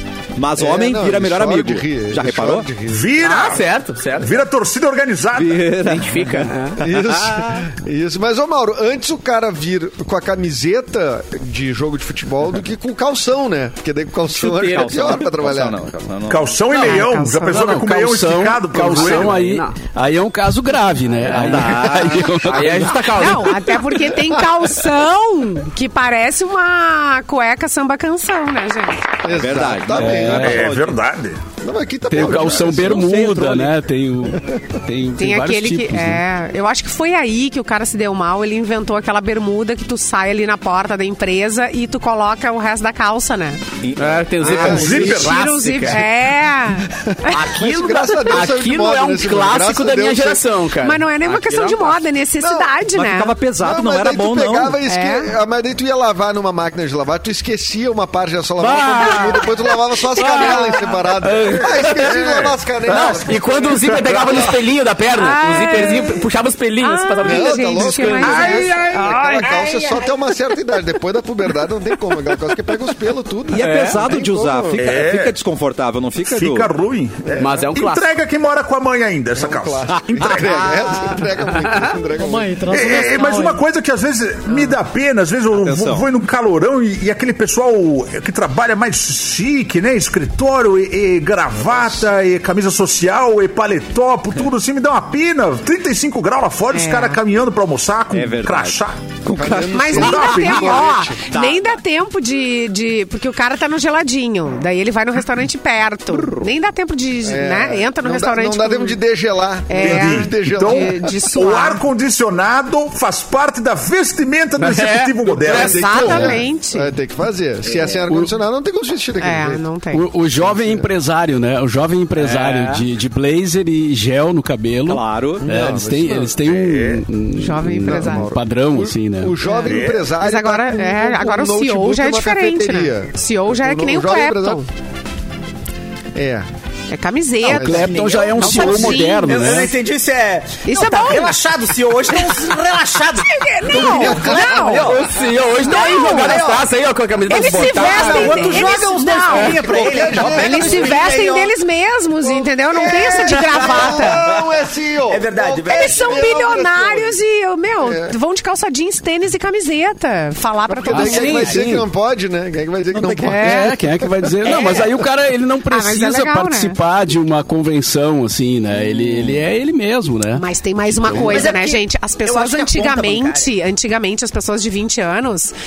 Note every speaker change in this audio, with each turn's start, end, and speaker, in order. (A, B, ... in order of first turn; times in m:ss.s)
0:00.4-0:02.7 A
0:00.6-0:03.1 B
0:02.8-0:05.7 C
0:03.2-0:04.4 D
0:05.3-0:07.6 A
0:05.8-0:06.8 D
0:06.8-0:15.8 B
0:14.3-0:15.2 D
0:14.6-0:16.7 A
0:16.3-0:19.4 C
0:16.7-0:17.6 E
0:17.5-0:22.9 F
0:18.8-0:19.8 D
0:21.3-0:21.8 D
0:21.3-0:23.2 A
0:22.3-0:23.9 D
0:23.1-0:29.1 E
0:29.2-0:30.6 B
0:29.3-0:31.0 A
0:30.0-0:30.6 F
0:30.3-0:31.4 C
0:31.6-0:33.0 B
0:32.1-0:36.2 F
0:32.2-0:33.8 A
0:35.2-0:43.6 E
0:43.8-0:45.0 A
0:44.0-0:46.0 D
0:44.5-0:45.0 B
0:44.6-0:47.9 E
0:44.7-0:45.4 C
0:47.1-0:50.4 B
0:47.5-0:52.0 D
0:50.8-0:53.4 E
0:52.4-0:52.8 B
0:52.9-0:54.8 A
0:53.6-1:03.7 B
0:54.8-0:55.3 E
0:58.6-1:02.2 D
0:58.7-0:59.2 C
1:01.4-1:03.1 C
1:02.8-1:09.4 D
1:03.8-1:04.4 C
1:05.1-1:06.3 E
1:06.8-1:09.7 E
1:07.2-1:14.9 B
1:08.2-1:09.4 C
1:13.5-1:16.7 A
1:13.6-1:14.0 D
1:14.8-1:15.3 C
1:16.2-1:20.6 C
1:17.3-1:18.1 D
1:19.4-1:22.8 B
1:19.9-1:20.5 A
1:20.9-1:23.5 D
1:22.6-1:39.2 C
1:25.5-1:26.1 A
1:36.7-1:37.2 E
1:38.1-1:41.8 A
1:39.3-1:41.2 B
1:39.7-1:49.0 E
1:40.0-1:40.8 C
1:47.2-1:51.1 B
1:49.7-1:51.8 E
1:49.8-1:56.4 C
1:54.6-1:56.3 D
1:55.4-1:56.9 E
1:56.1-1:59.6 B
1:57.7-1:58.0 A
1:59.2-2:00.0 E
1:59.9-2:09.4 F
2:00.3-2:00.9 B
2:02.2-2:02.8 D
2:04.9-2:05.4 A
2:05.4-2:06.3 B
2:06.4-2:07.0 C
2:07.3-2:08.3 E
2:07.8-2:14.6 B
2:09.4-2:14.7 E
2:09.6-2:10.1 C
2:16.1-2:16.5 B
2:16.9-2:19.7 E
2:17.4-2:19.7 F
2:17.4-2:17.9 B
2:17.7-2:26.7 G
2:20.6-2:21.4 E
2:22.1-2:22.5 E
2:23.2-2:25.0 E
2:23.7-2:24.6 B
2:23.9-2:29.4 D
2:25.6-2:26.4 E
2:27.3-2:31.5 G
2:27.3-2:34.2 E
2:29.4-2:31.1 B
2:32.2-2:37.2 B
2:32.7-2:34.5 G
2:35.1-2:36.7 G
2:35.7-2:41.6 E
2:37.8-2:38.2 B
2:40.7-2:44.7 B
2:40.9-2:41.8 F
2:40.9-2:41.8 D
2:43.2-2:43.8 E
2:43.4-2:50.4 F
2:44.4-2:45.0 E
2:45.7-2:46.8 E
2:50.3-2:55.5 E
2:51.1-2:53.5 G